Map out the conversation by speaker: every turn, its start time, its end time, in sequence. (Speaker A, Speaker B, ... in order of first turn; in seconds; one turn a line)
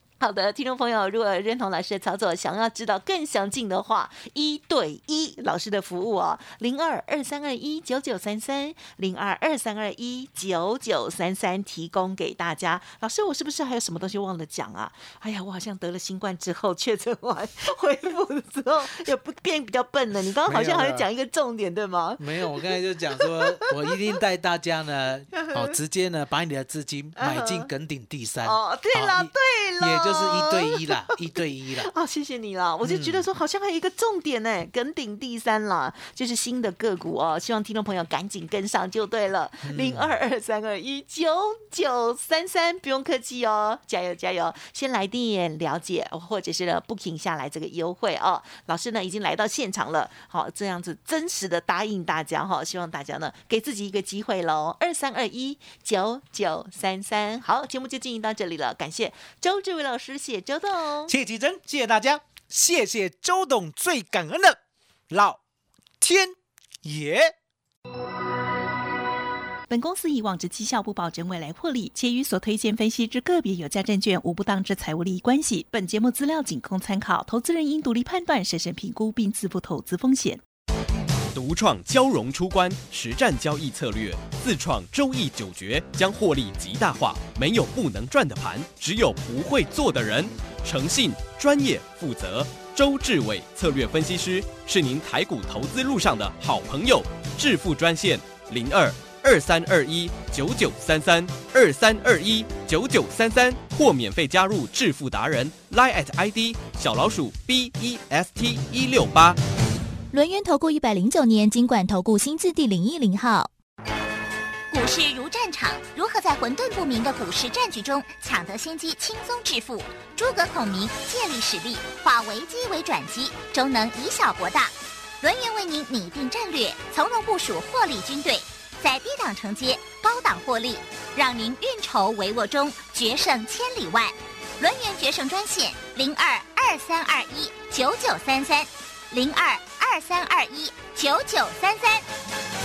Speaker A: 0.2-24.0
Speaker B: 20.4-21.1
Speaker B: 22.2-31.9
Speaker A: 25.3-25.8
Speaker A: 27.2-27.7
Speaker A: 28.4-61.1
Speaker B: 32.8-33.2
Speaker B: 39.6-40.1
Speaker B: 61.1-64.6
Speaker B: 65.1-65.4
Speaker B: 66.0-67.3
Speaker A: 69.7-80.4
Speaker C: 81.3-109.4
Speaker D: 110.1-113.5
Speaker E: 114.7-142.0